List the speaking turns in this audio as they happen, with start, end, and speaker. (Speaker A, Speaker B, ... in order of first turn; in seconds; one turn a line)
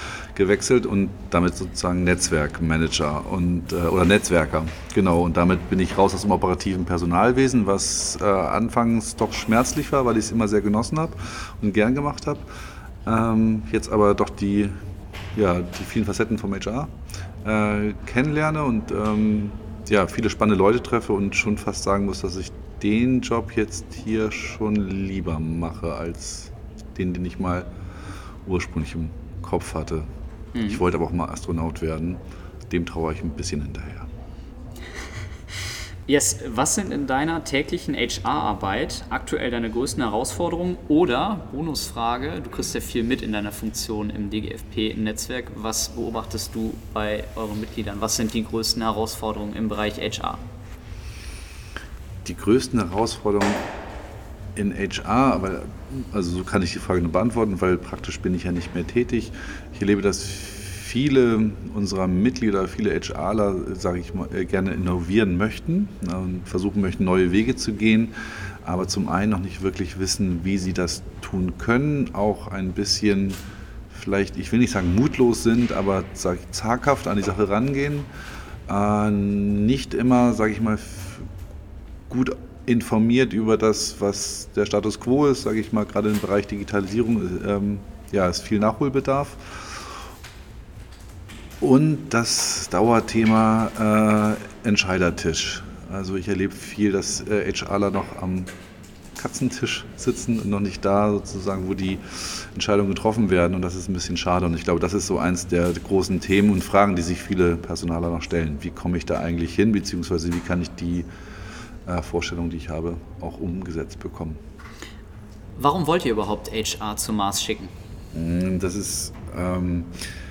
Speaker A: 0.3-12.5
Speaker A: 13.1-14.8
Speaker A: 15.3-16.9
Speaker A: 17.4-27.7
Speaker A: 28.4-30.1
Speaker B: 30.5-30.8
Speaker A: 30.6-34.1
Speaker B: 36.1-50.4
Speaker A: 52.2-53.6
Speaker A: 54.5-68.1
Speaker A: 68.6-73.4
Speaker A: 73.9-78.1
Speaker A: 78.7-81.3
Speaker A: 82.1-90.0
Speaker A: 91.6-98.5
Speaker A: 99.2-111.1
Speaker A: 111.9-114.4
Speaker B: 115.6-117.7
Speaker A: 118.1-119.9